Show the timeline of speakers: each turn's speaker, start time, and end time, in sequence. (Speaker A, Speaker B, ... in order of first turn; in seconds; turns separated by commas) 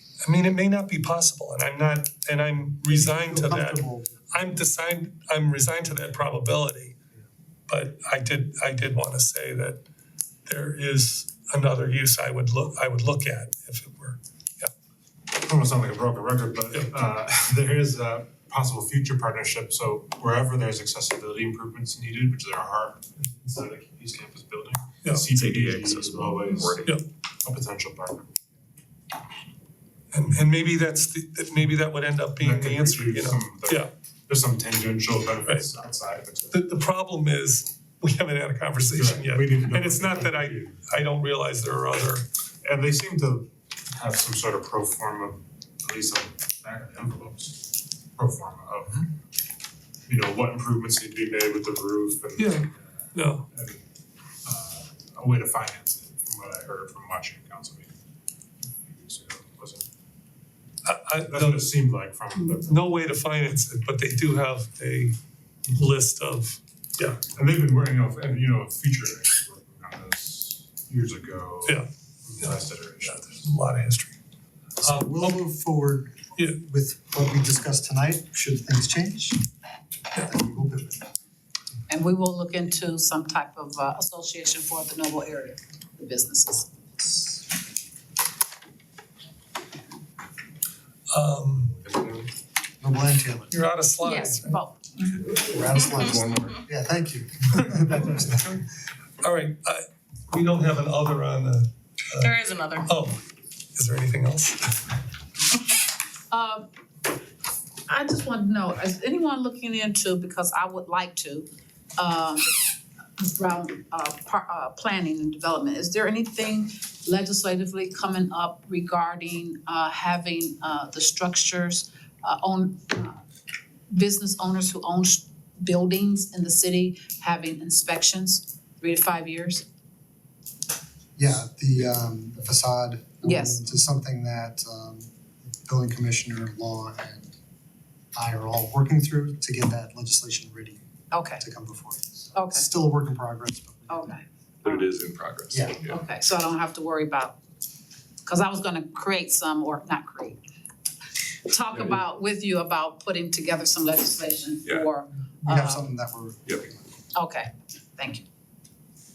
Speaker A: 0.2-7.0, Speaker B: 2.9-4.3, Speaker A: 7.7-9.8, Speaker A: 10.4-14.7, Speaker C: 15.3-28.3, Speaker D: 25.3-26.9, Speaker A: 30.1-33.9, Speaker C: 32.4-36.6, Speaker A: 36.5-42.2, Speaker C: 38.9-40.7, Speaker C: 42.6-49.1, Speaker C: 50.1-52.7, Speaker A: 52.4-53.5, Speaker C: 53.5-53.8, Speaker C: 54.4-57.9, Speaker C: 58.8-59.9, Speaker A: 60.8-61.7, Speaker C: 61.2-62.9, Speaker A: 62.6-65.2, Speaker A: 65.7-67.2, Speaker C: 67.2-73.4, Speaker A: 73.1-74.2, Speaker A: 74.8-75.4, Speaker B: 74.8-79.4, Speaker B: 80.1-81.0, Speaker E: 81.9-86.7, Speaker A: 91.1-91.8, Speaker D: 91.9-92.2, Speaker B: 92.8-93.5, Speaker A: 93.5-94.5, Speaker E: 94.0-95.2, Speaker B: 95.3-98.6, Speaker D: 96.0-96.5, Speaker A: 98.0-98.6, Speaker A: 99.2-103.2, Speaker E: 102.3-102.8, Speaker A: 103.8-104.7, Speaker E: 106.3-106.7, Speaker E: 107.9-112.5, Speaker E: 113.2-123.2, Speaker E: 123.9-129.6, Speaker B: 131.2-137.3, Speaker E: 133.2-133.6, Speaker B: 138.1-140.8, Speaker E: 141.1-141.4, Speaker B: 141.4-144.2, Speaker E: 142.3-142.7, Speaker E: 143.9-144.7, Speaker D: 144.6-146.0, Speaker B: 145.5-145.8, Speaker E: 145.8-147.3, Speaker E: 148.2-150.4, Speaker E: 151.4-155.8, Speaker B: 155.4-156.9, Speaker E: 157.1-158.2